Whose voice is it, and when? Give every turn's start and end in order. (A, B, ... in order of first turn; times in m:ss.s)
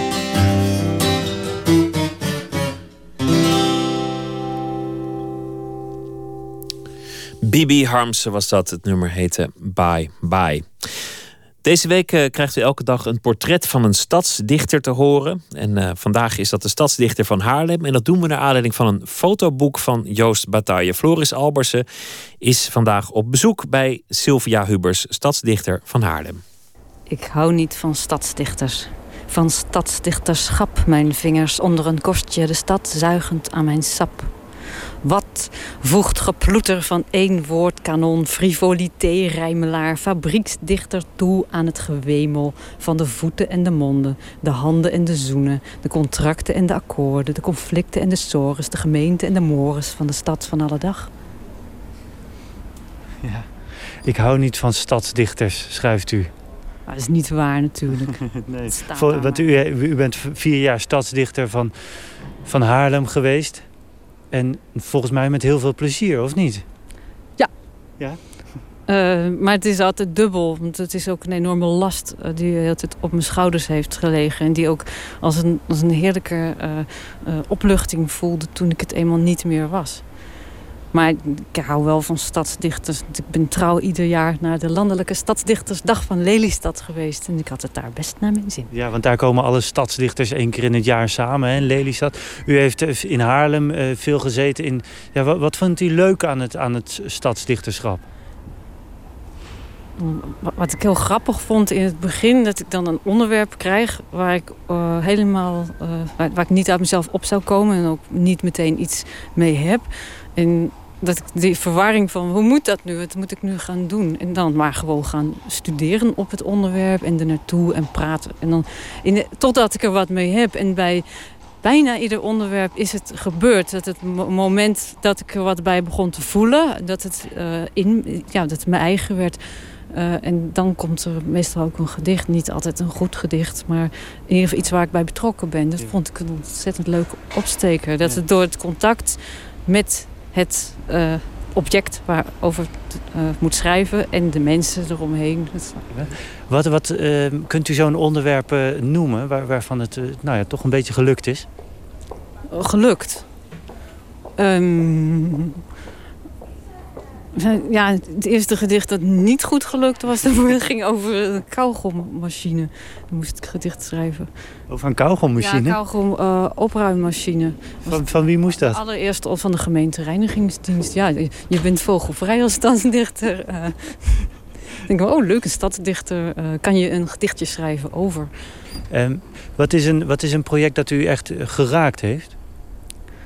0:07.4-0:21.8 A
0:22.4-0:26.4 A
0:27.1-0:34.3 B
0:35.0-0:51.1 B
0:53.2-0:53.5 C
0:54.0-0:56.3 C
0:56.9-0:58.1 B
0:58.1-1:03.7 C
0:58.7-0:59.5 B
1:04.3-1:06.6 C
1:08.0-1:08.2 C
1:08.9-1:20.2 B
1:20.9-1:28.7 B
1:28.7-1:38.0 C
1:40.0-2:01.0 B
2:01.6-2:25.8 B
2:25.9-2:31.5 C
2:32.5-2:33.2 B
2:34.4-2:35.6 B
2:37.3-2:44.3 B
2:44.7-2:45.8 C
2:45.3-2:54.3 B
2:47.8-2:48.8 C
2:54.8-2:58.3 B
2:58.9-3:02.4 C